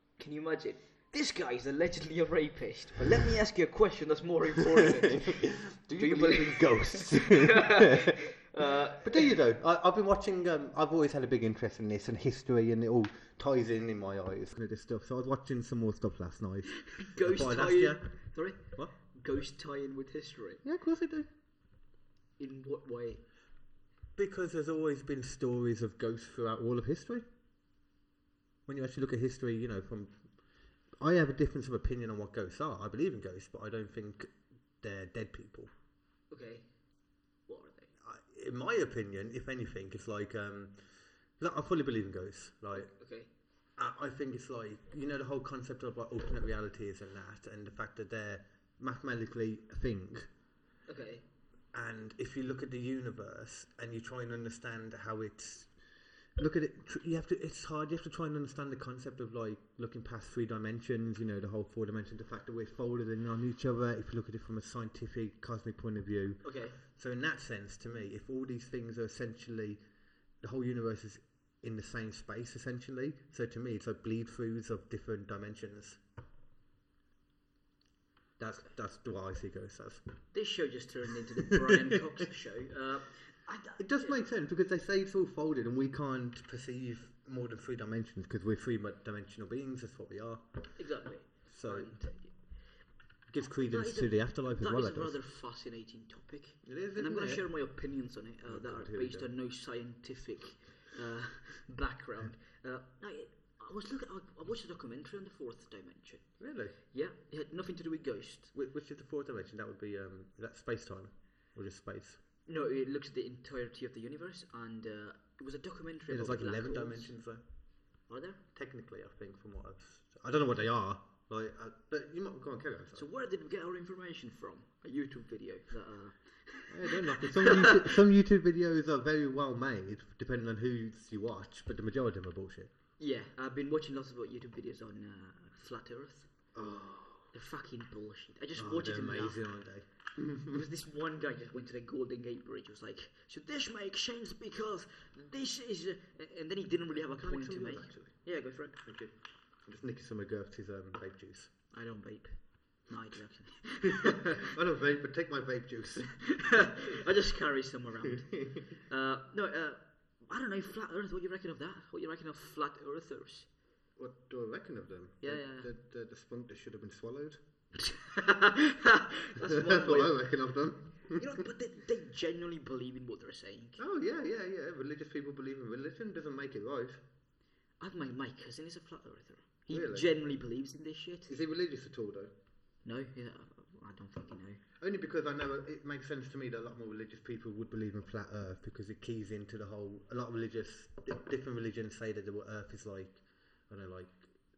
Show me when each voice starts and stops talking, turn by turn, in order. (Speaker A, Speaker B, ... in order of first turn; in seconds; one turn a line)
Speaker A: 0.2-9.3
Speaker B: 5.0-8.2
Speaker B: 9.0-18.1
Speaker A: 16.9-20.6
Speaker B: 18.7-18.9
Speaker B: 20.6-21.3
Speaker A: 22.4-23.2
Speaker B: 24.1-27.2
Speaker B: 28.6-30.2
Speaker B: 31.0-35.7
Speaker A: 36.3-36.7
Speaker A: 37.5-37.9
Speaker B: 38.0-40.7
Speaker B: 41.4-42.9
Speaker A: 42.7-43.3
Speaker B: 43.8-50.3
Speaker A: 50.9-51.2
Speaker B: 51.7-55.7
Speaker B: 56.4-69.8
Speaker A: 66.4-66.8
Speaker B: 70.4-76.0
Speaker B: 78.4-80.0
Speaker A: 80.3-84.2
Speaker B: 81.5-82.0
Speaker B: 83.8-90.4
Speaker A: 90.8-92.3
Speaker B: 91.5-92.0
Speaker B: 93.3-95.2
Speaker A: 93.6-108.5
Speaker B: 96.6-97.5
Speaker B: 98.5-99.3
Speaker B: 106.4-106.7
Speaker B: 108.5-112.2
Speaker A: 112.5-117.1
Speaker B: 116.1-117.4
Speaker A: 118.1-118.4
Speaker B: 118.5-123.0
Speaker A: 122.9-128.0
Speaker B: 126.7-132.7
Speaker A: 133.0-136.3
Speaker B: 136.5-137.3
Speaker A: 137.3-139.4
Speaker B: 138.6-140.6
Speaker A: 140.5-148.8
Speaker B: 147.2-148.2
Speaker B: 148.8-151.5
Speaker A: 151.7-154.5
Speaker B: 153.8-156.7
Speaker A: 156.2-163.5
Speaker B: 164.0-167.4
Speaker A: 165.2-165.7
Speaker A: 167.8-170.2
Speaker B: 169.4-171.4
Speaker A: 171.1-173.8
Speaker B: 173.8-177.0
Speaker A: 177.8-181.3
Speaker B: 179.7-180.1
Speaker B: 181.3-182.3
Speaker A: 182.8-184.6
Speaker B: 184.8-194.3